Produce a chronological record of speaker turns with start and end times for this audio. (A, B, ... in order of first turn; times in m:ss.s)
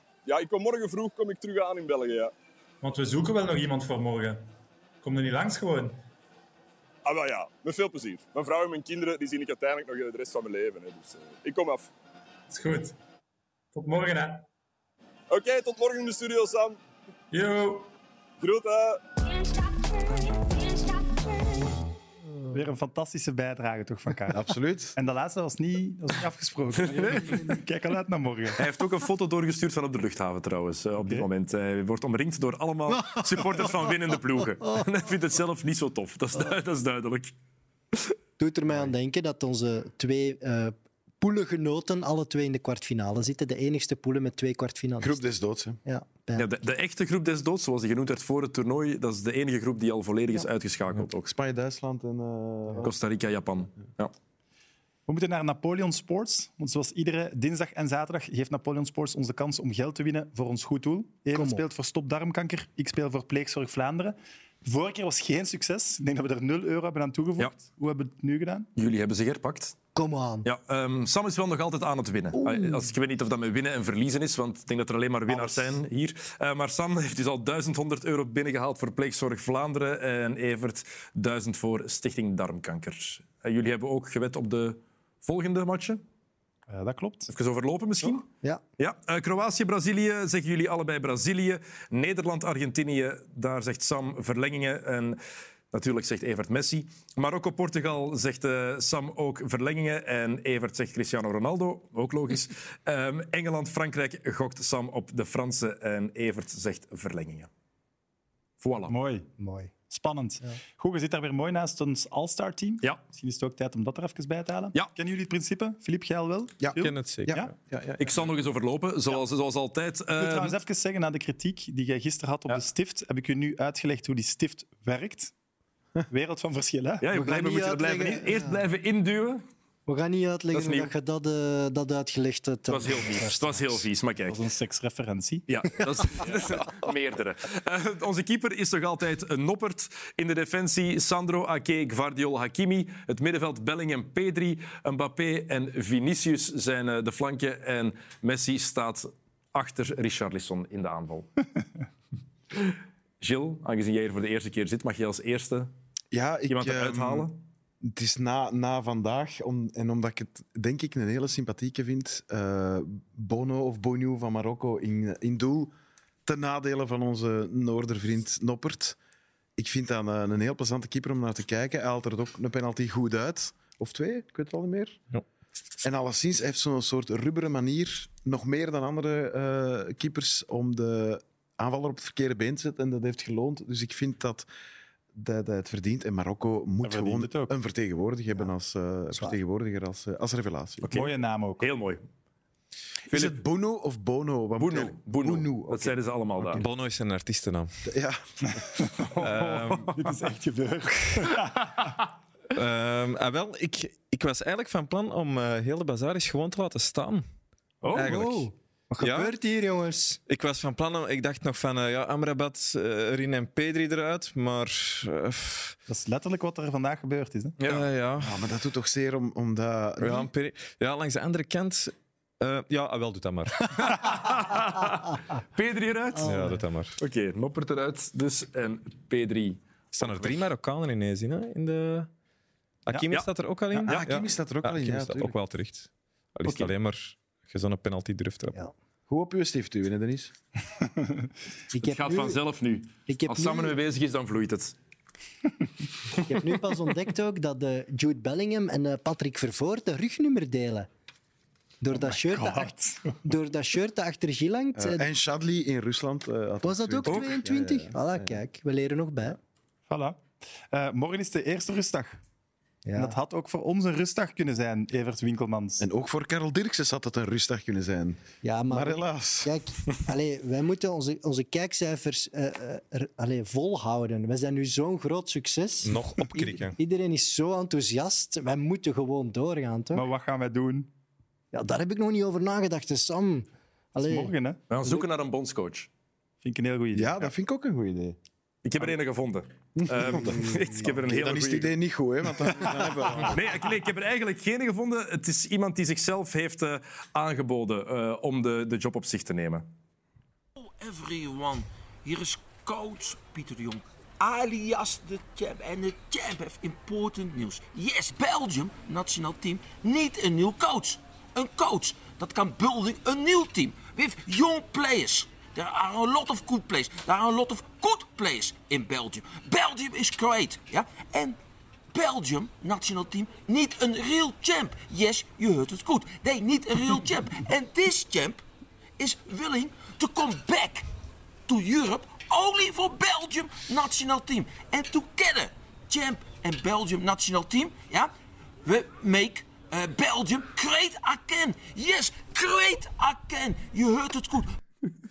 0:00.2-0:02.3 A
0:02.8-0:04.5 B
0:05.0-0:06.0 B
0:07.0-0:11.9 A
0:12.5-0:13.0 B
0:13.7-0:14.5 B
0:15.3-0:16.8 A
0:17.3-0:17.9 B
0:18.4-0:19.0 A
0:22.5-0:28.6 C
0:24.3-0:25.0 D
0:26.8-0:27.5 E
0:28.6-0:37.3 E
0:31.0-0:31.3 C
0:32.9-0:33.2 F
0:38.4-0:45.3 F
0:45.0-0:45.8 D
0:45.8-0:46.5 F
0:46.4-0:51.3 E
0:51.2-0:52.9 D
0:52.8-0:54.1 E
0:55.1-1:08.7 C
1:01.3-1:01.6 F
1:08.8-1:09.8 E
1:10.0-1:10.5 F
1:10.4-1:26.0 E
1:15.3-1:15.8 C
1:26.7-1:27.3 C
1:27.3-1:28.2 E
1:28.8-1:35.2 E
1:35.7-1:47.5 E
1:48.6-1:49.0 E
1:48.9-1:49.3 C
1:49.4-1:49.7 F
1:49.9-1:57.5 C
1:56.6-1:58.3 D
1:56.8-1:57.4 G
1:58.0-2:00.6 E
2:00.2-2:05.3 C
2:06.1-2:07.1 C
2:07.0-2:09.4 E
2:07.1-2:08.6 F
2:09.9-2:13.8 F
2:10.5-2:10.9 E
2:12.7-2:14.4 E
2:14.2-2:15.4 C
2:15.5-2:31.3 E
2:32.5-2:35.7 E
2:36.1-2:37.3 D
2:36.5-2:37.4 E
2:37.8-2:45.7 D
2:46.2-2:49.0 D
2:49.6-2:55.0 D
2:55.8-3:04.5 D
3:05.1-3:10.8 D
3:06.8-3:07.5 C
3:10.8-3:12.0 E
3:10.9-3:11.7 C
3:13.1-3:16.0 D
3:13.1-3:13.3 E
3:14.6-3:16.6 E
3:16.6-3:17.7 G
3:17.9-3:18.9 D
3:19.0-3:22.0 C
3:19.2-3:20.0 G
3:22.5-3:27.2 G
3:27.8-3:28.1 E
3:27.9-3:28.5 G
3:28.0-3:30.2 F
3:29.0-3:29.4 G
3:30.3-3:35.8 G
3:35.9-3:37.6 C
3:37.6-3:37.9 E
3:37.6-3:38.4 G
3:38.2-3:40.3 D
3:40.0-3:43.8 G
3:43.7-3:46.3 E
3:46.2-3:47.0 G
3:46.2-3:46.6 F
3:47.0-3:50.4 E
3:49.9-3:52.1 G
3:52.8-3:58.7 G
3:53.8-3:55.3 D
3:56.4-3:56.7 E
3:59.1-4:00.3 D
4:01.7-4:02.4 F
4:01.8-4:04.7 E
4:03.1-4:03.8 F
4:06.1-4:10.9 F
4:11.8-4:12.7 F
4:11.9-4:13.2 C
4:13.2-4:15.0 F
4:14.8-4:18.4 D
4:16.6-4:19.4 F
4:19.9-4:22.2 C
4:22.8-4:23.2 F
4:23.0-4:25.9 C
4:25.8-4:28.2 D
4:28.4-4:40.0 F
4:28.7-4:29.5 D
4:35.8-4:36.8 G
4:39.9-4:40.9 C
4:41.5-4:44.3 F
4:44.0-4:44.6 C
4:44.7-4:45.9 E
4:46.4-4:47.3 C
4:46.9-4:48.2 D
4:48.6-4:51.7 E
4:49.8-4:53.5 D
4:53.3-4:59.7 E
5:00.6-5:21.4 H
5:21.9-5:28.4 H
5:29.0-5:30.8 H
5:31.5-5:38.1 H
5:38.6-5:44.6 H